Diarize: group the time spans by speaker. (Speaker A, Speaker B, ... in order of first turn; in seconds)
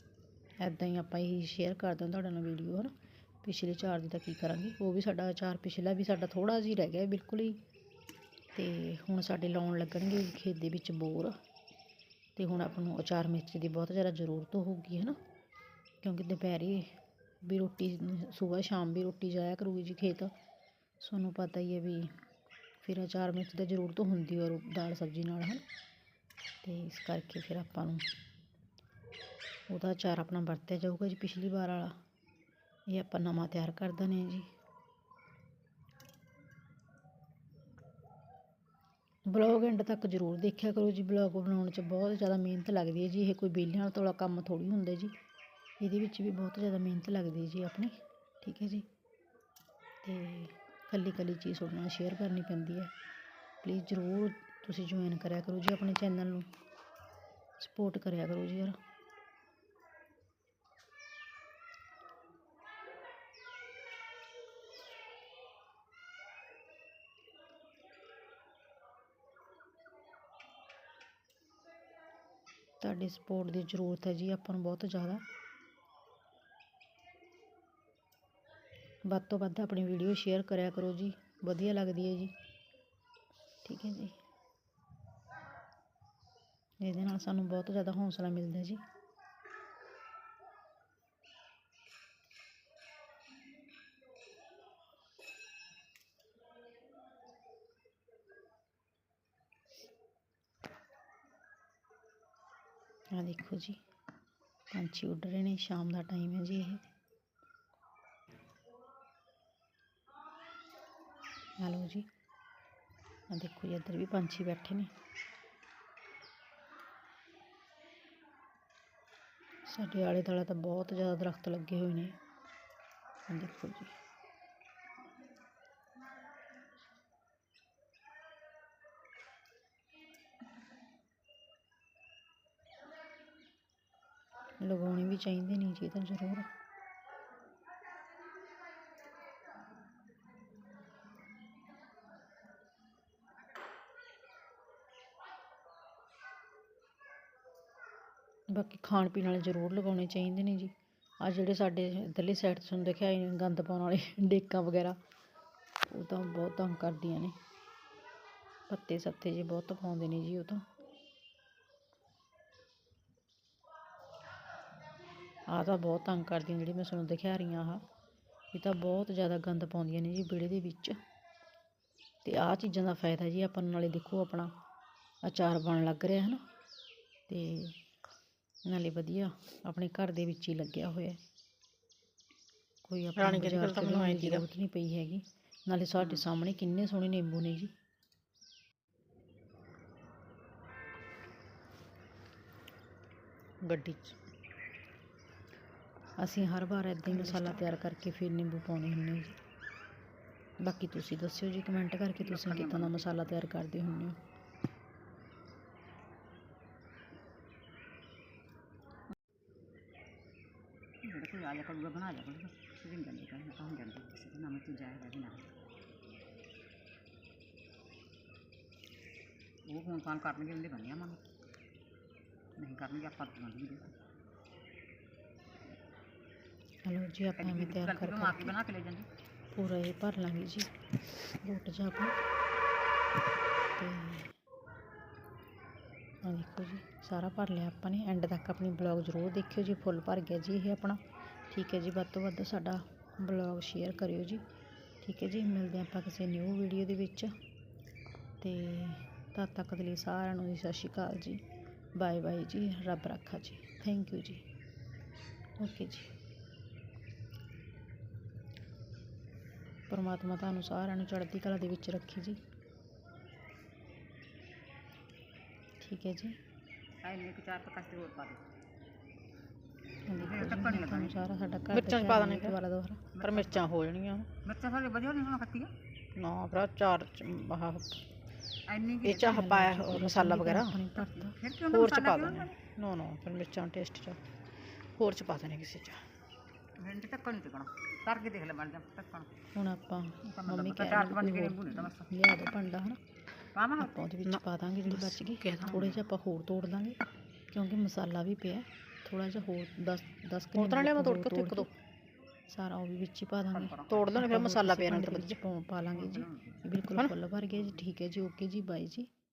Speaker A: 0.6-2.9, 3.4-7.6, 8.5-11.3, 12.3-15.2, 16.0-16.9, 17.4-20.3, 21.0-22.1, 22.8-25.6, 26.6-28.0, 29.7-31.9, 32.9-34.5, 39.3-45.1, 45.8-48.9, 50.0-52.9, 53.6-56.5, 57.6-58.8, 72.8-75.2, 79.0-82.3, 83.6-84.2, 86.8-88.8, 103.1-103.8, 104.7-106.8, 111.6-112.1, 113.3-114.9, 119.7-122.2, 123.3-123.9, 134.6-136.5, 148.5-155.0, 155.8-157.3, 158.7-160.6, 165.5-167.8, 168.5-171.0, 172.2-174.5, 175.2-176.4, 177.3-177.8, 178.7-181.2, 182.8-187.7, 196.2-199.4, 200.6-204.2, 226.8-228.6, 229.5-230.7, 231.2-232.2, 233.8-234.3, 236.2-244.4, 245.0-247.3, 248.4-251.4, 252.0-254.4, 255.6-256.1, 259.9-262.4, 265.8-266.4, 270.1-273.1, 279.2-281.3, 289.5-293.0, 293.8-297.0, 297.5-301.7, 302.5-309.1
Speaker B: 183.2-184.4, 193.6-194.2, 197.1-197.8, 271.7-272.6, 273.2-274.3, 276.1-278.0, 279.0-280.8, 281.7-284.2, 284.9-286.0, 294.2-296.0, 300.5-301.7, 303.9-305.4
Speaker C: 202.2-203.3, 211.0-215.5, 219.7-221.2, 222.6-223.9, 227.4-229.1, 267.0-268.4, 270.1-271.2, 273.1-273.6, 274.4-275.7, 278.7-279.5, 280.9-282.6, 286.8-289.3, 290.2-292.5, 293.5-294.0, 303.5-304.1, 305.9-306.6